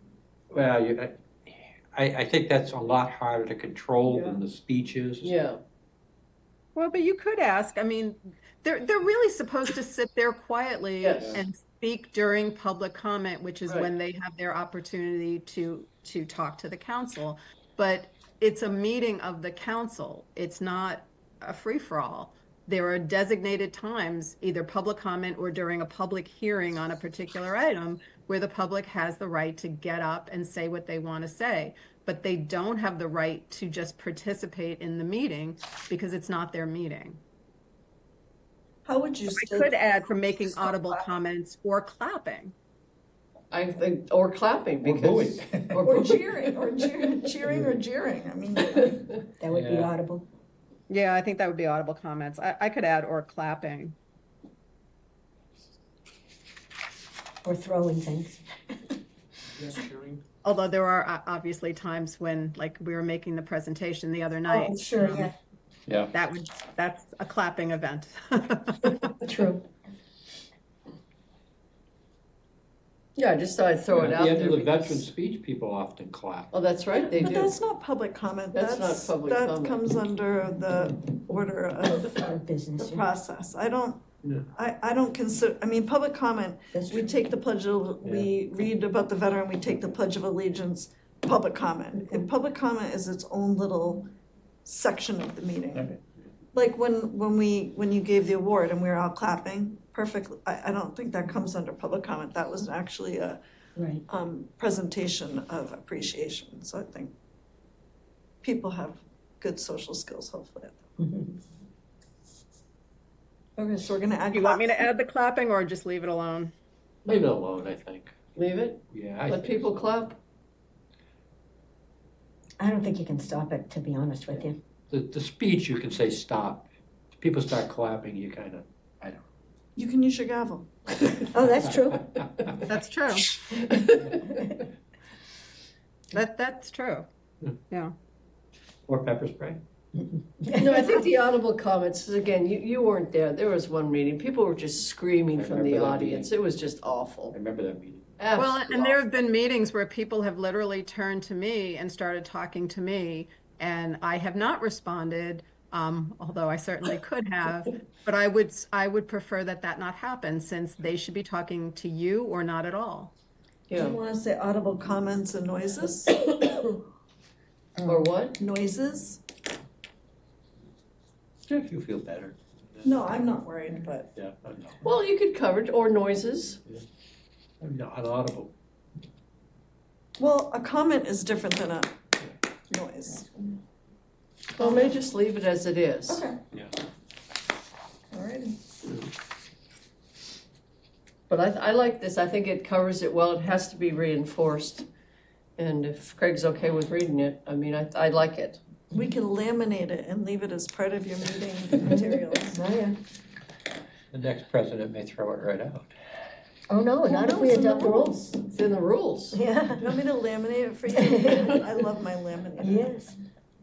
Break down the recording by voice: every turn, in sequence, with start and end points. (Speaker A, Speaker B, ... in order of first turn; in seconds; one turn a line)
Speaker A: 0.5-5.4
Speaker B: 4.1-4.4
Speaker B: 5.2-5.6
Speaker C: 6.8-37.2
Speaker B: 11.0-11.4
Speaker D: 38.9-41.2
Speaker C: 39.3-42.5
Speaker B: 43.5-46.1
Speaker A: 44.8-45.9
Speaker D: 45.8-49.2
Speaker E: 49.4-50.3
Speaker A: 49.5-49.9
Speaker C: 50.9-54.0
Speaker E: 57.4-58.9
Speaker A: 59.6-60.2
Speaker C: 60.4-65.3
Speaker E: 64.5-65.3
Speaker A: 65.9-66.1
Speaker C: 66.1-69.2
Speaker E: 69.2-69.7
Speaker B: 73.2-75.1
Speaker A: 73.9-76.5
Speaker B: 76.5-77.5
Speaker D: 76.9-82.2
Speaker B: 78.5-79.8
Speaker E: 82.0-83.1
Speaker D: 82.8-94.1
Speaker E: 86.7-87.1
Speaker D: 94.7-95.9
Speaker D: 96.5-103.4
Speaker E: 103.8-104.0
Speaker D: 104.1-107.1
Speaker D: 108.4-110.8
Speaker E: 111.0-111.4
Speaker D: 113.6-114.9
Speaker C: 114.3-116.5
Speaker A: 117.1-118.2
Speaker B: 118.3-120.2
Speaker A: 118.9-119.6
Speaker E: 122.6-124.6
Speaker A: 124.9-129.2
Speaker D: 129.8-131.2
Speaker E: 131.3-132.1
Speaker A: 131.4-132.6
Speaker C: 132.7-133.3
Speaker B: 133.6-134.1
Speaker C: 136.1-137.1
Speaker C: 137.7-137.9
Speaker A: 138.9-139.6
Speaker E: 140.4-141.1
Speaker B: 140.6-147.4
Speaker A: 145.3-146.3
Speaker A: 147.3-148.1
Speaker B: 148.2-149.0
Speaker C: 148.4-163.1
Speaker B: 163.7-164.0
Speaker D: 163.7-166.3
Speaker E: 167.8-168.1
Speaker B: 167.9-168.4
Speaker D: 168.4-169.2
Speaker A: 171.5-173.1
Speaker D: 172.8-174.1
Speaker A: 174.2-174.8
Speaker B: 174.8-176.6
Speaker A: 177.6-178.5
Speaker D: 180.2-181.9
Speaker D: 182.7-183.5
Speaker D: 184.6-185.0
Speaker B: 184.6-186.2
Speaker D: 186.1-186.4
Speaker D: 188.1-188.6
Speaker B: 191.3-194.9
Speaker B: 195.6-198.6
Speaker D: 198.9-202.6
Speaker E: 201.8-203.0
Speaker A: 204.1-205.9
Speaker E: 206.7-208.2
Speaker D: 207.1-208.4
Speaker B: 208.5-209.4
Speaker E: 209.3-209.9
Speaker D: 209.8-212.9
Speaker E: 210.9-211.5
Speaker E: 212.6-213.2